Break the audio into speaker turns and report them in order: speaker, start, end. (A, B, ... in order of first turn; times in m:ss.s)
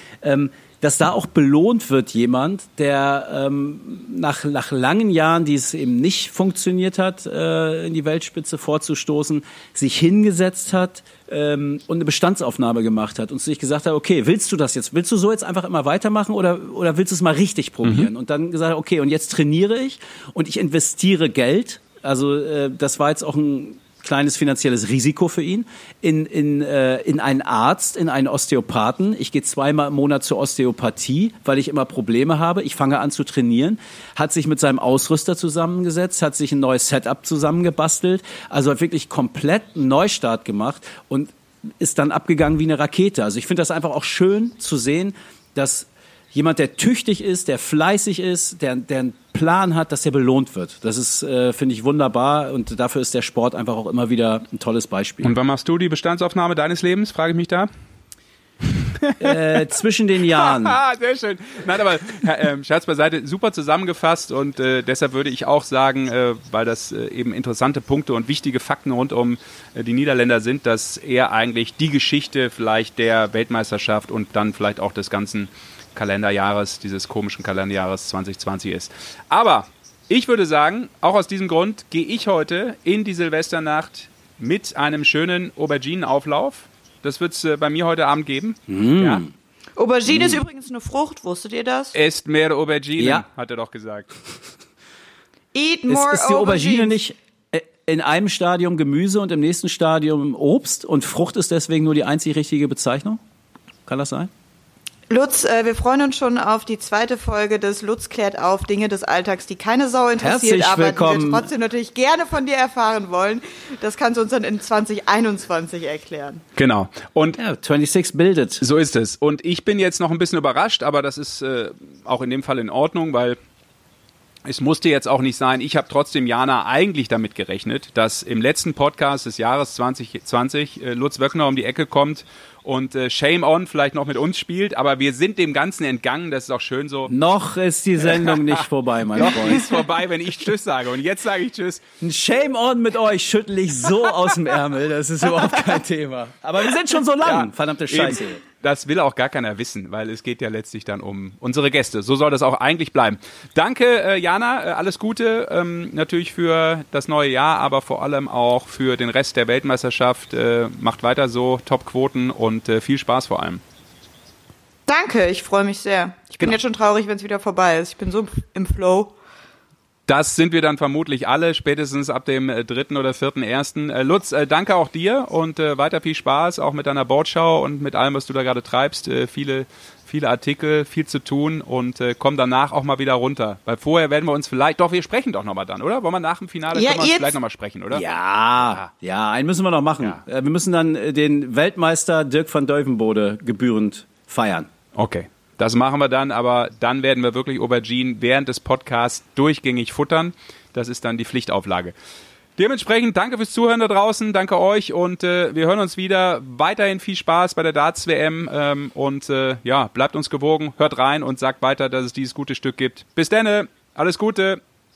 0:00.2-0:55.3 A
0:17.8-0:18.1 B
0:55.2-0:57.7 B
0:59.0-0:59.4 B
0:59.2-1:00.8 A
1:00.3-1:29.2 B
1:28.7-1:29.3 A
1:29.8-1:31.9 C
1:30.1-1:30.4 A
1:31.9-1:34.1 B
1:33.0-1:33.2 A
1:35.5-1:37.0 C
1:35.9-1:43.2 A
1:43.9-1:44.3 A
1:45.1-1:56.4 C
1:50.2-1:51.5 A
1:56.6-1:57.4 B
1:57.4-1:58.6 A
1:58.6-2:03.4 B
2:04.4-2:17.1 B
2:17.1-2:19.7 A
2:18.2-2:18.6 B
2:19.2-2:21.8 B
2:22.0-2:28.4 A
2:27.2-2:43.6 B
2:44.9-2:49.1 C
2:50.1-3:08.0 B
3:06.7-3:07.4 C
3:07.9-3:14.7 A
3:15.0-3:21.9 B
3:22.6-3:34.6 B